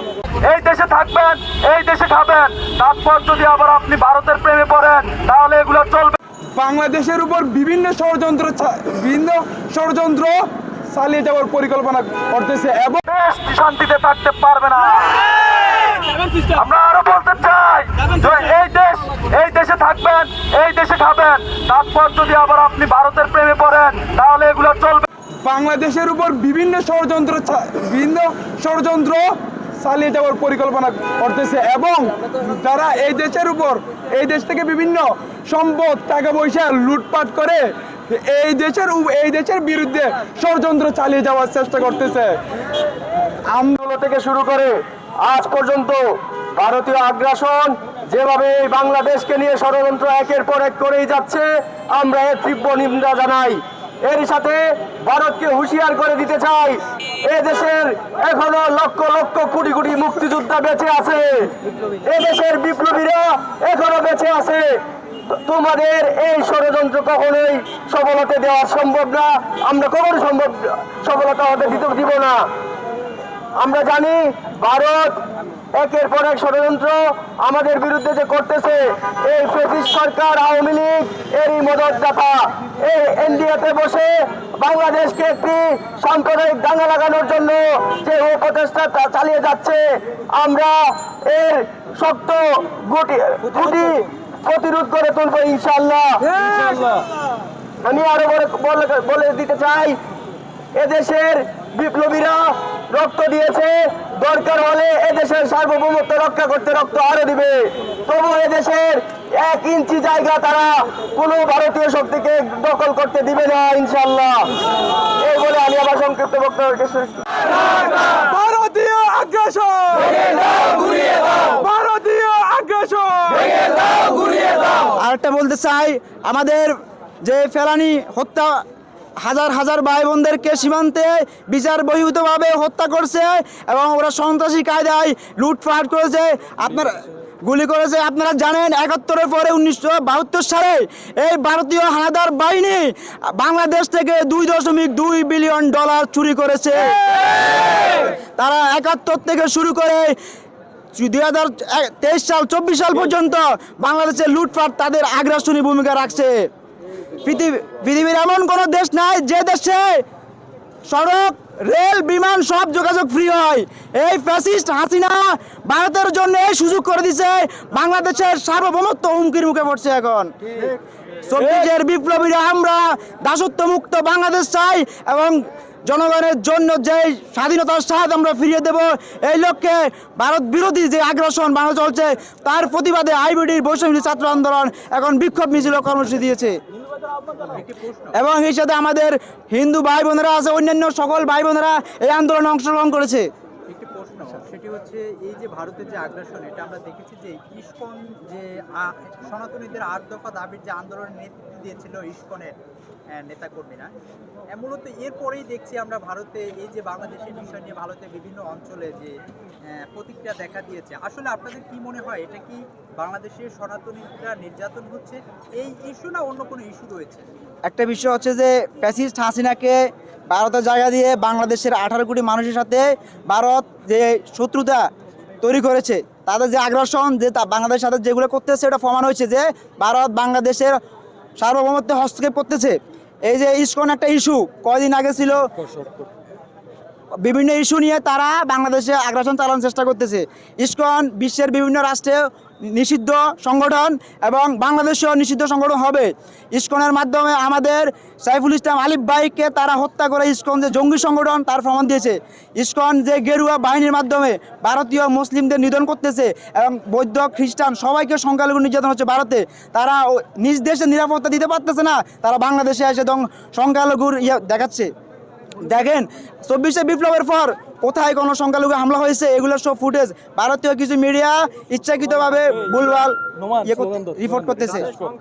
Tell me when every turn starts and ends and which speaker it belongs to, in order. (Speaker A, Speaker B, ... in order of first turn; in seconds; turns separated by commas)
Speaker A: 0.4-6.2, Speaker B: 6.5-13.0, Speaker A: 13.1-25.1, Speaker B: 25.4-42.4, Speaker C: 43.7-46.0, Speaker C: 46.5-72.4, Speaker C: 73.6-75.2, Speaker C: 75.8-96.7, Speaker C: 97.8-100.0, Speaker C: 100.7-114.5, Speaker C: 115.2-117.2, Speaker B: 118.1-124.5, Speaker D: 124.9-128.6, Speaker D: 129.2-147.0, Speaker D: 147.8-150.2, Speaker D: 150.9-156.5, Speaker D: 157.1-160.0, Speaker D: 160.9-170.7, Speaker D: 171.2-186.6, Speaker E: 187.4-188.2, Speaker D: 188.1-193.3, Speaker E: 193.7-202.5, Speaker E: 203.1-203.9, Speaker E: 204.5-209.1, Speaker E: 209.7-217.3, Speaker D: 217.7-224.8, Speaker D: 225.4-230.8, Speaker D: 231.4-235.8, Speaker D: 237.2-264.9, Speaker D: 265.6-274.9